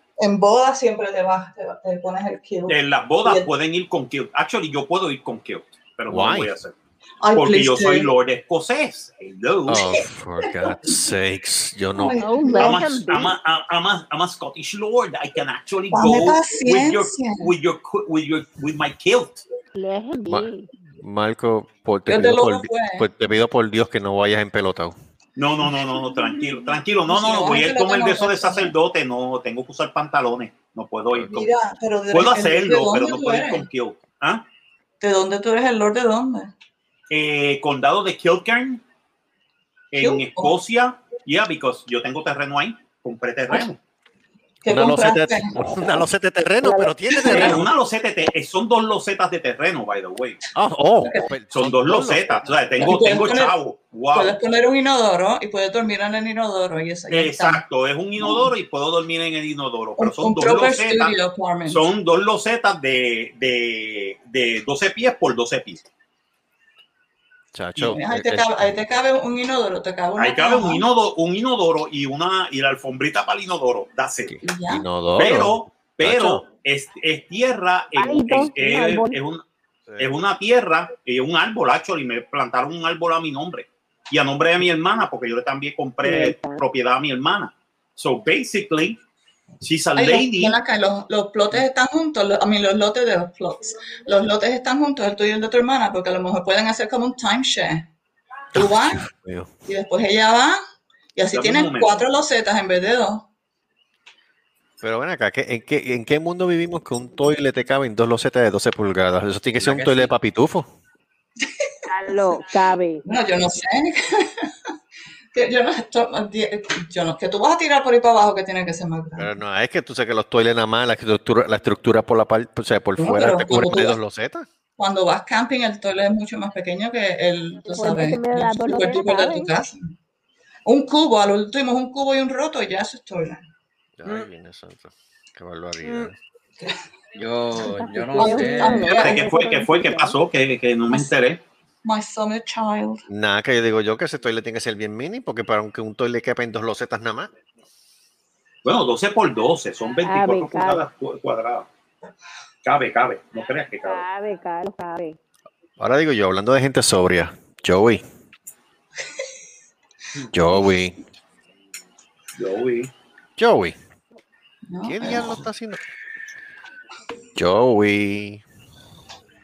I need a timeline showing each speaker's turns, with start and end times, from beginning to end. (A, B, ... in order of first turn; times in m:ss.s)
0:00.2-0:03.5 A
0:02.7-0:06.7 B
0:06.1-0:06.5 C
0:07.2-0:08.1 A
0:07.3-0:10.0 B
0:09.7-0:12.2 C
0:12.0-0:12.8 A
0:12.1-0:13.4 D
0:12.5-0:19.4 B
0:15.9-0:17.5 A
0:19.8-0:20.7 D
0:20.3-0:24.9 C
0:22.1-0:23.0 A
0:25.4-0:31.5 B
0:27.1-0:28.7 A
0:31.2-0:33.6 A
0:32.1-0:34.4 B
0:35.0-0:36.5 A
0:37.1-0:38.8 B
0:39.9-0:43.8 B
0:40.0-0:40.5 A
0:44.6-0:45.5 A
0:44.7-0:47.7 C
0:47.1-0:47.6 A
0:47.2-0:50.4 B
0:50.5-0:52.9 C
0:51.5-0:54.4 B
0:52.8-0:53.6 A
0:54.1-0:57.6 A
0:57.1-1:01.1 B
0:58.2-0:58.5 A
1:00.0-1:01.8 A
1:01.7-1:05.8 B
1:07.5-1:08.5 C
1:07.9-1:10.8 A
1:10.2-1:14.4 B
1:14.3-1:16.4 C
1:14.4-1:14.8 A
1:15.2-1:19.4 B
1:17.9-1:19.2 D
1:20.0-1:29.0 B
1:26.0-1:26.6 D
1:29.6-1:30.6 B
1:30.0-1:37.9 A
1:38.5-1:39.0 A
1:39.1-1:39.5 C
1:39.7-1:40.6 A
1:41.1-1:43.2 A
1:41.3-1:42.0 B
1:44.8-1:50.7 C
1:49.6-1:50.1 E
1:51.9-1:53.0 D
1:53.0-1:54.7 A
1:55.3-1:59.3 A
1:59.2-2:04.5 C
2:03.0-2:04.0 A
2:04.8-2:09.8 A
2:07.6-2:09.5 D
2:10.6-2:13.4 A
2:14.0-2:16.2 C
2:14.0-2:14.3 E
2:15.8-2:16.1 E
2:17.1-2:18.9 E
2:17.6-2:20.2 D
2:18.2-2:19.3 A
2:18.9-2:21.4 B
2:21.8-2:23.0 A
2:23.1-2:27.3 C
2:28.6-2:31.7 B
2:30.0-2:30.8 D
2:32.6-2:34.0 B
2:33.8-2:35.2 D
2:35.8-2:38.0 C
2:40.3-2:41.0 C
2:42.4-2:42.9 B
2:43.4-2:43.8 C
2:44.7-2:45.4 A
2:44.8-2:45.8 C
2:47.4-2:48.4 C